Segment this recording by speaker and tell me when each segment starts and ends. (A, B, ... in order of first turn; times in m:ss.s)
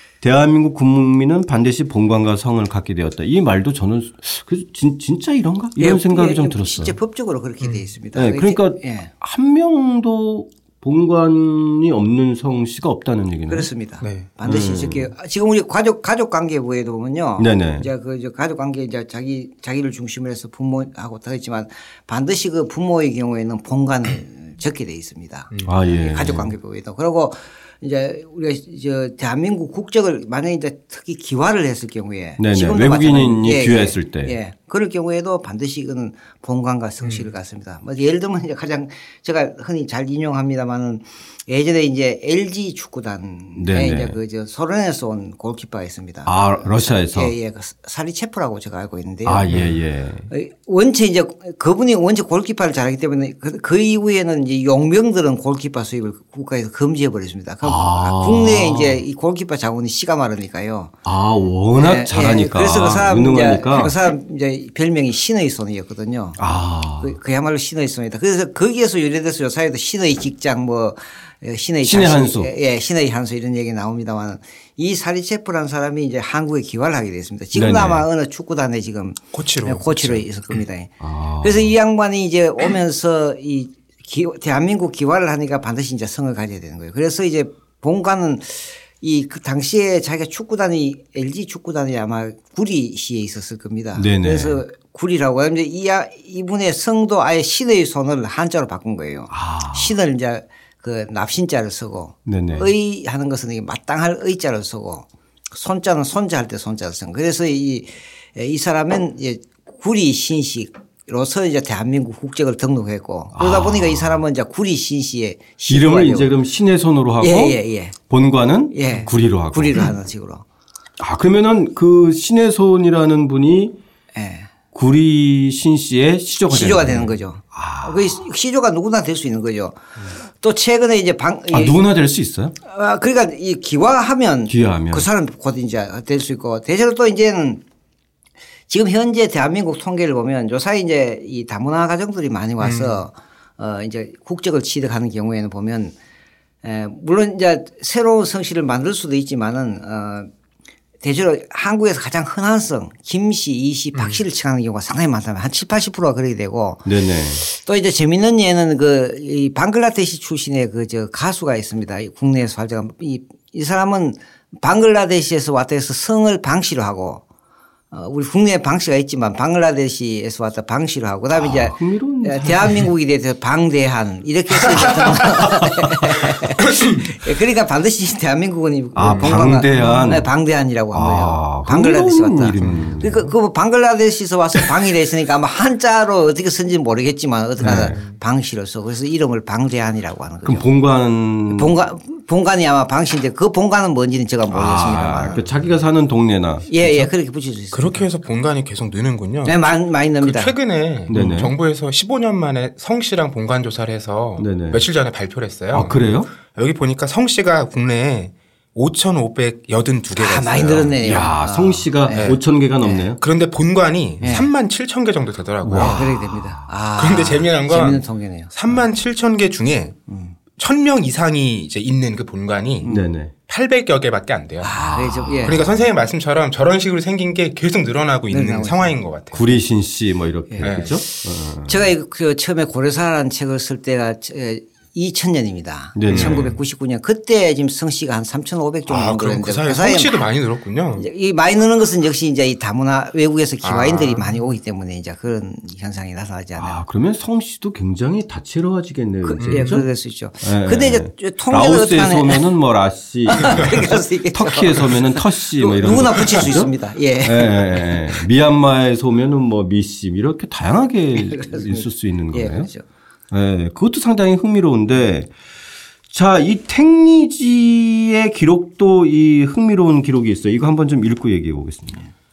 0:00.2-0:07.0 A
0:05.8-0:09.1 B
0:08.1-0:13.7 A
0:13.5-0:49.6 B
0:14.0-0:14.3 C
0:14.4-0:15.1 A
0:17.4-0:17.9 A
0:25.6-0:26.5 A
0:32.4-0:34.4 A
0:43.6-0:44.2 A
0:46.2-0:47.3 A
0:49.2-0:50.3 A
0:50.3-1:00.9 B
0:57.6-0:59.0 A
1:01.0-1:04.0 A
1:01.8-1:06.4 B
1:06.4-1:07.2 A
1:07.0-1:56.3 B
1:11.8-1:12.5 A
1:17.6-1:18.1 A
1:19.3-1:20.2 C
1:21.0-1:21.7 A
1:34.0-1:34.6 A
1:39.3-1:40.0 A
1:42.2-1:42.7 A
1:53.3-1:54.2 A
1:55.7-1:59.9 A
1:57.2-1:57.9 B
1:58.7-2:00.4 B
2:01.0-2:03.8 A
2:04.1-2:04.5 B
2:04.7-2:08.2 A
2:06.5-2:11.8 B
2:11.5-2:12.6 A
2:12.6-2:17.6 B
2:14.5-2:15.1 A
2:18.7-2:25.9 B
2:22.6-2:23.0 C
2:26.6-2:30.3 B
2:31.0-2:47.2 B
2:33.9-2:34.2 C
2:36.9-2:37.4 A
2:47.9-3:10.7 B
2:51.4-2:52.9 A
2:55.3-2:56.3 A
2:58.9-3:00.3 A
3:00.9-3:03.3 A
3:02.6-3:03.0 C
3:07.6-3:08.0 A
3:07.6-3:08.0 C
3:10.4-3:11.7 A
3:11.5-3:15.4 B
3:14.5-3:17.1 A
3:16.7-3:18.0 B
3:17.7-3:19.6 C
3:19.4-3:20.5 B
3:20.2-3:31.2 C
3:21.1-3:21.6 A
3:24.4-3:24.8 A
3:25.7-3:26.3 A
3:30.1-3:33.1 B
3:31.0-3:33.2 A
3:32.1-3:32.4 C
3:33.2-3:36.1 C
3:34.2-3:34.5 B
3:35.6-3:36.7 A
3:35.8-3:38.5 B
3:37.0-3:40.0 C
3:40.1-3:40.3 B
3:40.6-3:49.6 C
3:42.8-3:43.3 A
3:44.6-3:45.6 B
3:44.7-3:45.7 A
3:48.3-3:49.0 B
3:49.3-3:51.9 A
3:50.5-4:00.3 B
3:50.6-3:51.0 C
3:55.9-3:56.5 A
3:56.1-3:56.6 C
3:58.9-4:01.0 C
4:01.0-4:06.8 B
4:03.6-4:04.4 C
4:06.6-4:09.9 A
4:09.2-4:12.5 B
4:09.4-4:09.8 C
4:10.4-4:22.7 A
4:13.2-4:18.2 B
4:21.2-4:22.8 B
4:23.3-4:25.3 A
4:26.1-4:32.0 A